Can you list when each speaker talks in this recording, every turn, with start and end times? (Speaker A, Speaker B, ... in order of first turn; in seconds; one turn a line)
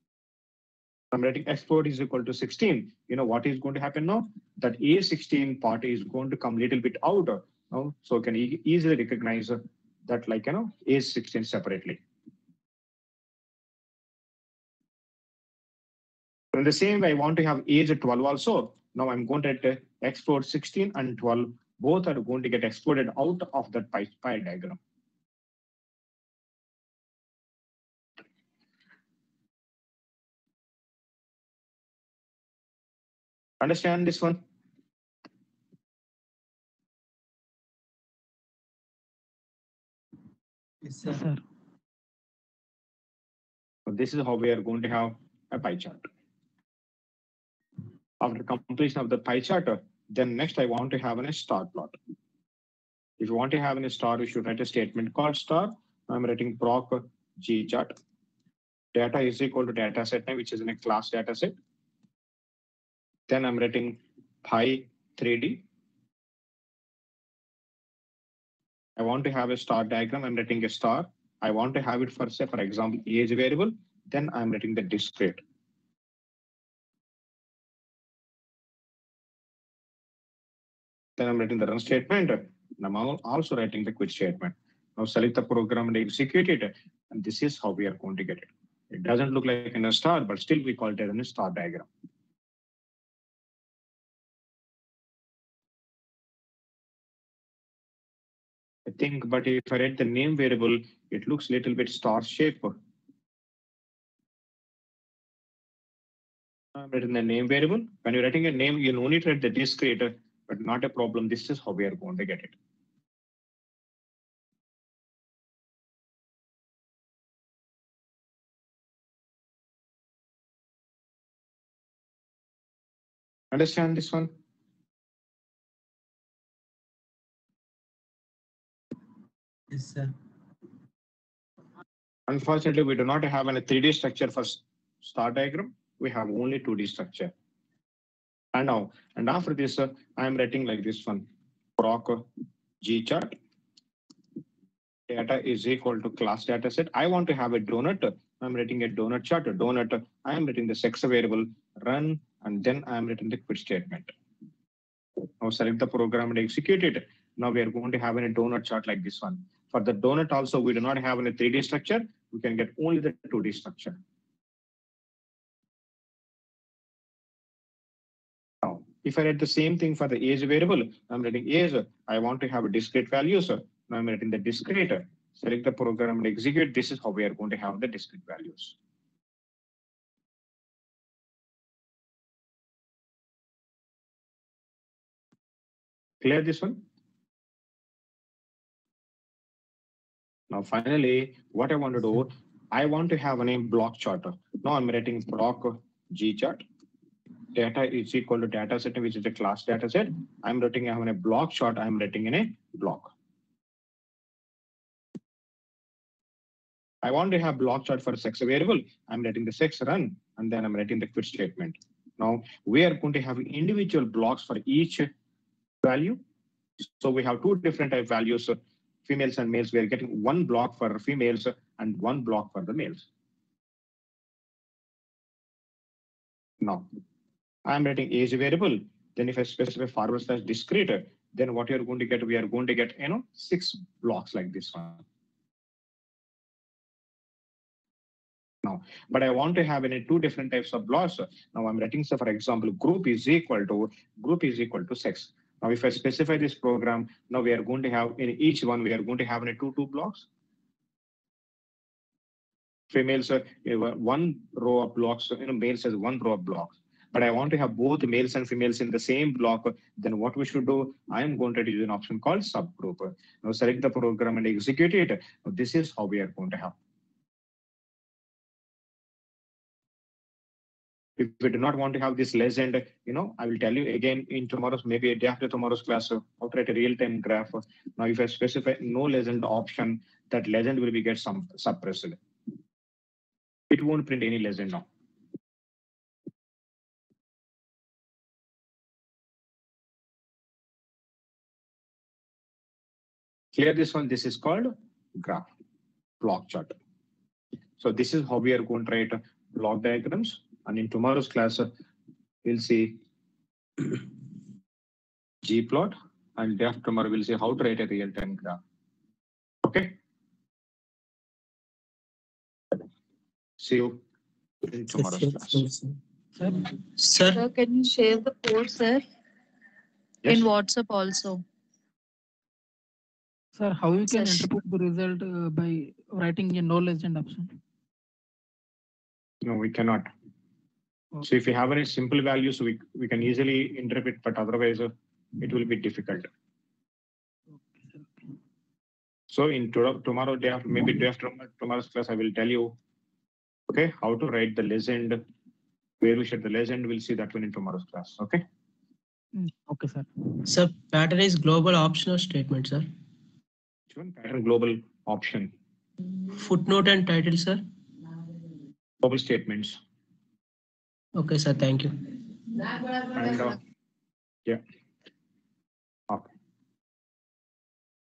Speaker A: 1.1-12.0
Speaker A: 16.5-24.8
Speaker A: 33.6-34.4
Speaker B: 40.9-41.2
Speaker C: 41.0-41.4
Speaker A: 43.9-46.1
Speaker A: 48.2-52.0
Speaker A: 53.2-57.9
Speaker A: 58.9-61.5
Speaker A: 63.3-65.6
Speaker A: 69.0-75.4
Speaker A: 81.2-91.9
Speaker A: 98.8-102.7
Speaker A: 106.7-112.5
Speaker A: 123.5-124.3
Speaker B: 129.7-130.1
Speaker A: 132.3-137.3
Speaker A: 138.5-142.2
Speaker A: 142.8-143.3
Speaker A: 145.1-154.1
Speaker A: 155.4-164.0
Speaker A: 168.6-178.7
Speaker A: 186.2-186.8
Speaker A: 190.5-196.6
Speaker A: 197.5-203.1
Speaker A: 207.0-215.1
Speaker A: 215.8-216.2
Speaker A: 216.8-223.1
Speaker A: 226.6-226.9
Speaker A: 227.7-235.0
Speaker A: 238.6-250.2
Speaker A: 252.9-266.7
Speaker A: 271.2-282.2
Speaker A: 283.7-284.9
Speaker A: 293.5-295.5
Speaker A: 296.2-296.8
Speaker A: 297.8-301.7
Speaker A: 302.4-303.0
Speaker A: 305.4-308.6
Speaker A: 309.6-309.9
Speaker A: 313.6-314.0
Speaker A: 314.7-315.6
Speaker B: 314.9-316.0
Speaker B: 317.0-317.4
Speaker D: 317.2-319.0
Speaker D: 320.2-321.4
Speaker C: 323.6-327.5
Speaker D: 324.1-324.4
Speaker A: 329.4-330.1
Speaker A: 331.2-336.3
Speaker C: 337.6-338.1
Speaker A: 339.3-342.7
Speaker A: 343.7-345.2
Speaker A: 346.0-348.4
Speaker C: 349.4-350.1
Speaker B: 350.4-352.9
Speaker A: 353.9-355.5
Speaker B: 356.3-357.6
Speaker A: 359.0-359.8
Speaker B: 361.1-362.0
Speaker A: 363.1-363.6